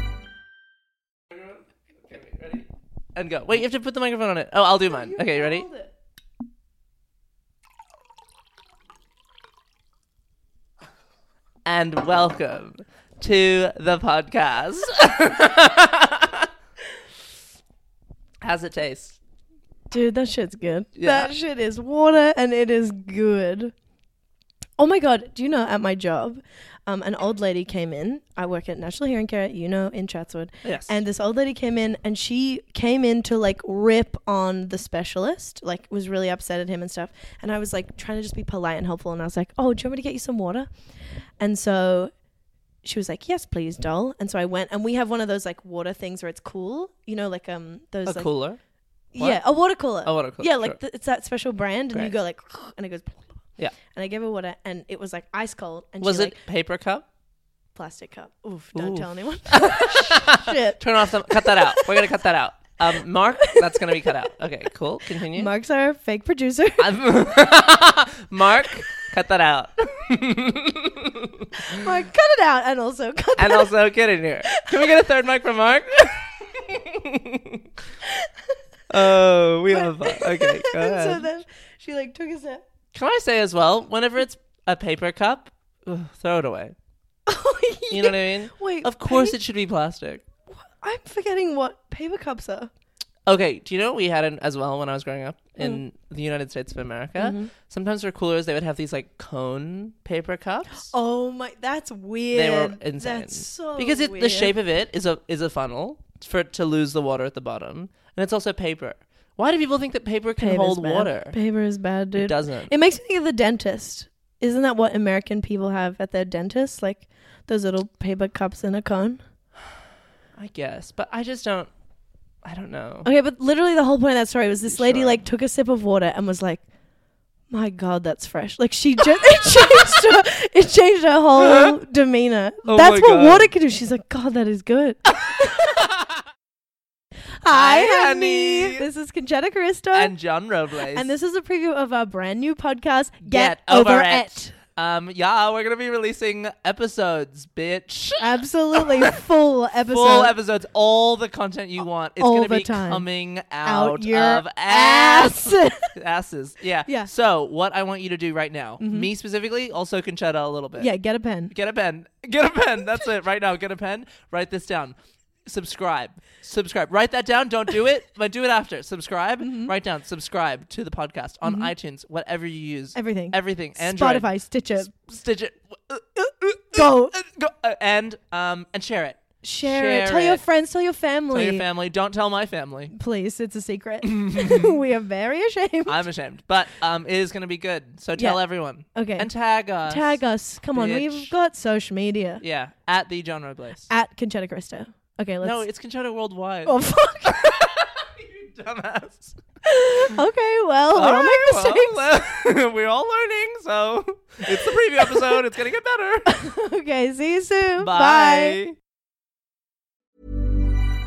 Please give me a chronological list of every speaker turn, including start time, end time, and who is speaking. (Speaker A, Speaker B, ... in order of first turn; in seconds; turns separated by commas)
Speaker A: 2.1-5.7, Speaker B: 4.9-5.9, Speaker A: 11.7-16.5, Speaker A: 18.4-19.2, Speaker B: 19.9-23.7, Speaker A: 20.9-21.4, Speaker B: 24.8-40.7, Speaker A: 30.6-31.0, Speaker B: 41.4-42.1, Speaker B: 42.8-48.3, Speaker A: 48.1-48.6, Speaker B: 49.1-53.2, Speaker A: 49.2-50.8, Speaker B: 53.9-56.4, Speaker A: 56.0-57.1, Speaker B: 57.8-62.1, Speaker A: 58.7-65.5, Speaker B: 63.4-64.2, Speaker B: 65.3-66.9, Speaker A: 66.8-71.9, Speaker B: 71.7-73.8, Speaker A: 73.4-77.6, Speaker B: 74.4-75.0, Speaker A: 78.9-81.2, Speaker B: 79.7-82.6, Speaker A: 82.9-86.8, Speaker B: 87.3-89.4, Speaker A: 87.9-90.2, Speaker B: 90.5-92.7, Speaker A: 93.3-100.9, Speaker B: 97.2-97.5, Speaker B: 100.9-104.5, Speaker A: 102.3-111.4, Speaker B: 110.4-119.2, Speaker A: 112.1-112.7, Speaker A: 120.4-121.7, Speaker A: 122.5-123.1, Speaker B: 123.0-126.6, Speaker A: 124.7-125.2, Speaker B: 127.5-135.8, Speaker A: 131.4-131.8, Speaker A: 132.7-133.5, Speaker A: 135.8-136.2, Speaker B: 137.4-140.2, Speaker A: 137.5-138.9, Speaker A: 139.9-141.1, Speaker B: 140.9-144.6, Speaker A: 143.2-149.1, Speaker B: 148.2-150.4, Speaker A: 149.9-160.9, Speaker B: 152.2-153.1, Speaker B: 153.6-155.9, Speaker B: 158.8-159.1, Speaker B: 160.8-161.5, Speaker A: 161.5-180.4, Speaker B: 169.4-169.7, Speaker B: 171.4-171.7, Speaker B: 172.9-174.9, Speaker B: 176.7-177.1, Speaker B: 179.4-181.7, Speaker A: 181.3-182.9, Speaker B: 182.9-186.1, Speaker A: 184.0-184.8, Speaker A: 185.9-190.2, Speaker B: 188.2-188.4, Speaker B: 188.9-189.3, Speaker B: 189.8-192.4, Speaker A: 190.7-191.3, Speaker A: 192.4-193.9, Speaker B: 193.9-195.7, Speaker A: 195.4-199.4, Speaker B: 196.7-197.6, Speaker B: 199.7-202.2, Speaker A: 200.9-206.4, Speaker B: 206.3-208.6, Speaker A: 207.8-208.8